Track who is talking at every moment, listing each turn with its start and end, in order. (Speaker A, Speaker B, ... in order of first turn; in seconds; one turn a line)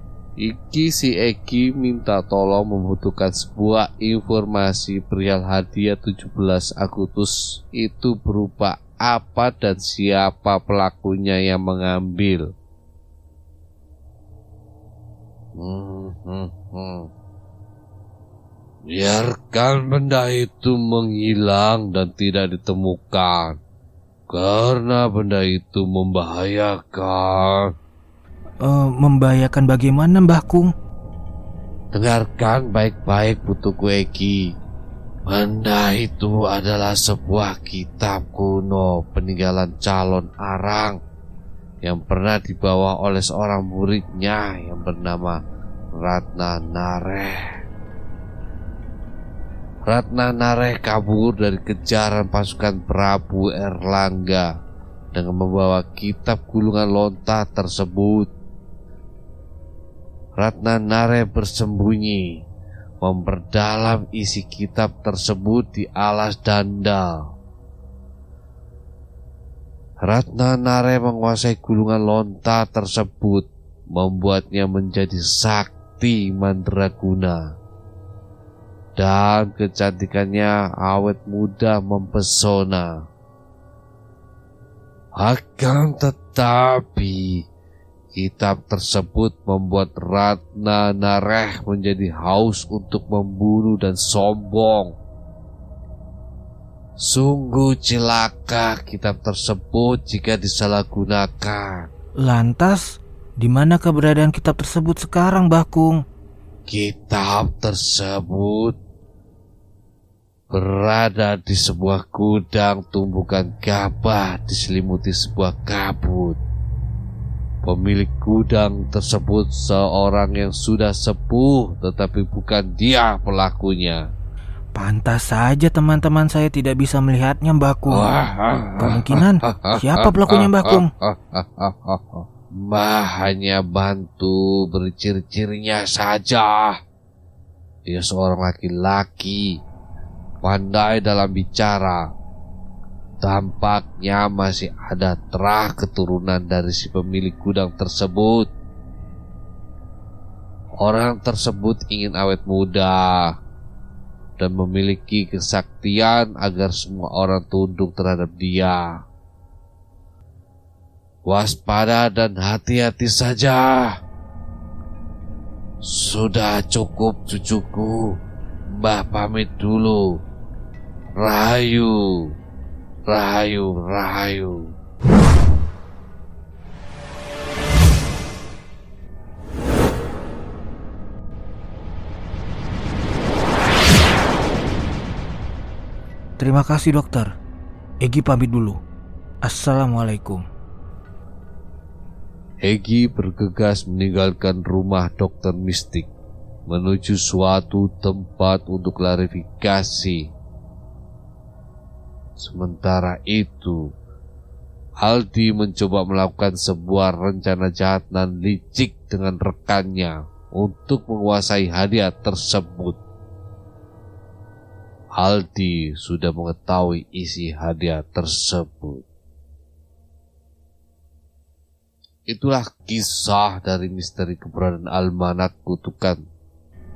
Speaker A: 0.4-12.4
Speaker A: 15.6-17.1
Speaker A: 18.9-23.6
Speaker A: 24.3-27.7
Speaker B: 28.6-30.7
Speaker A: 31.9-34.4
Speaker A: 35.3-41.0
Speaker A: 41.8-45.4
Speaker A: 46.0-47.4
Speaker A: 49.9-54.5
Speaker A: 55.1-58.3
Speaker A: 60.4-62.3
Speaker A: 63.0-67.2
Speaker A: 70.0-77.4
Speaker A: 79.0-82.9
Speaker A: 85.2-87.4
Speaker A: 88.1-94.9
Speaker A: 97.0-101.9
Speaker B: 102.2-106.0
Speaker A: 106.7-108.8
Speaker A: 110.5-116.4
Speaker A: 117.6-124.0
Speaker B: 124.7-128.1
Speaker A: 127.9-136.8
Speaker B: 128.8-130.9
Speaker A: 137.9-139.5
Speaker A: 140.4-142.0
Speaker A: 143.2-148.5
Speaker A: 150.8-153.3
Speaker A: 154.4-158.9
Speaker A: 161.2-163.9
Speaker A: 165.8-168.1
Speaker A: 168.7-170.1
Speaker A: 171.2-172.1
Speaker A: 173.1-174.6
Speaker B: 186.4-187.3
Speaker B: 188.0-188.8
Speaker B: 189.4-190.4
Speaker A: 192.6-196.1
Speaker A: 196.7-200.3
Speaker A: 202.4-203.8
Speaker A: 205.0-213.0
Speaker A: 215.2-219.0
Speaker A: 222.3-226.2